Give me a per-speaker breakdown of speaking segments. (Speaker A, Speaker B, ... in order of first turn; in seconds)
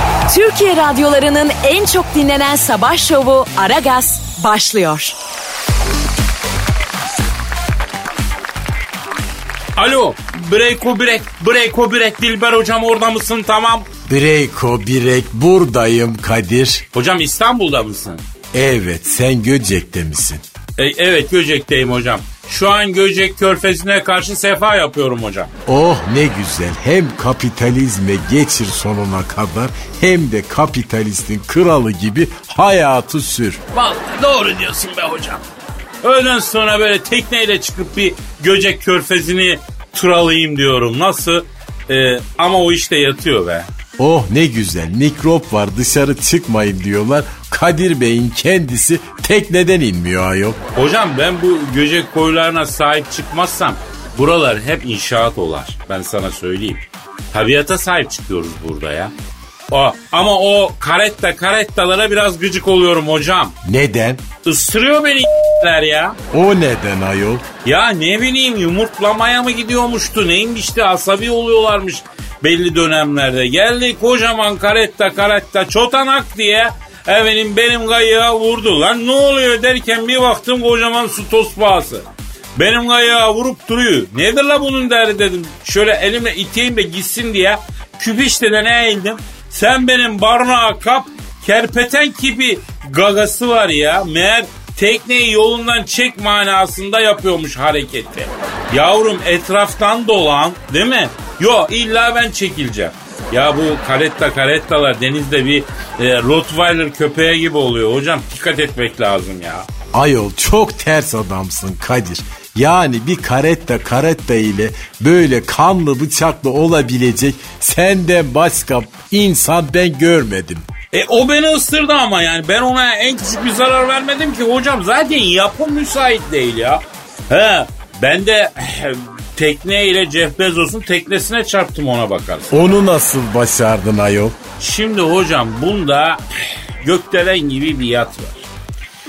Speaker A: 0.3-5.2
Speaker B: 9.8-13.9, 16.9-18.2, 20.8-25.5, 33.7-35.4, 36.0-43.7, 50.7-59.1, 59.7-63.5, 64.4-66.2, 67.6-109.7, 120.9-132.6, 134.6-136.2, 136.8-138.5
Speaker C: 14.1-16.8, 18.5-20.4, 25.7-33.6, 44.0-50.6, 63.6-64.2, 66.3-67.5, 109.9-120.7, 132.5-134.4